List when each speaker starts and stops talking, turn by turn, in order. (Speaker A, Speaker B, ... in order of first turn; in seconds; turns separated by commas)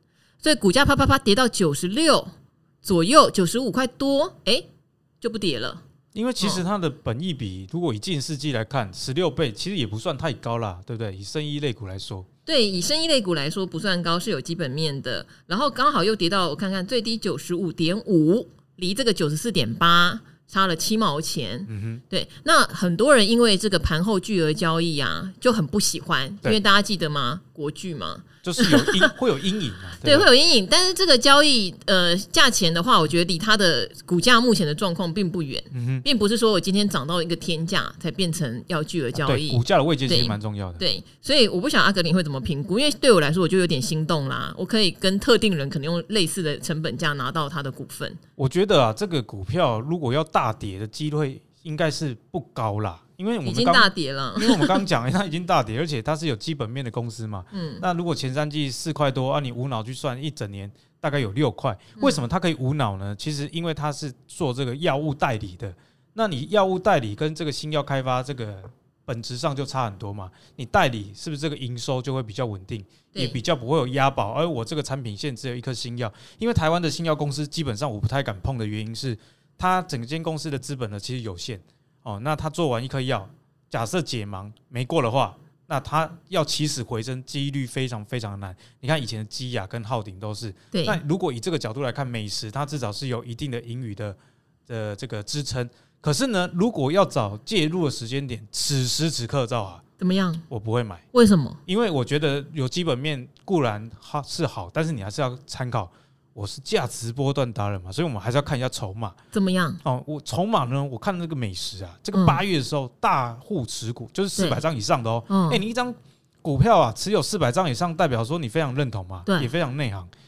Speaker A: 0.4-4.7, Speaker A: 5.2-5.8, Speaker B: 6.1-12.3, Speaker A: 12.5-29.1, Speaker B: 21.7-22.0, Speaker B: 28.4-30.3, Speaker A: 30.0-48.2, Speaker B: 35.7-36.0, Speaker B: 39.2-40.8, Speaker B: 48.4-99.8, Speaker A: 53.5-54.9, Speaker A: 57.5-57.8, Speaker A: 73.1-73.4, Speaker A: 90.7-91.0, Speaker A: 100.0-100.4, Speaker B: 100.5-101.0, Speaker A: 101.1-101.6, Speaker B: 101.7-109.2, Speaker A: 109.3-109.8, Speaker B: 109.8-120.1, Speaker A: 112.1-112.4, Speaker A: 114.4-114.6, Speaker A: 115.3-115.6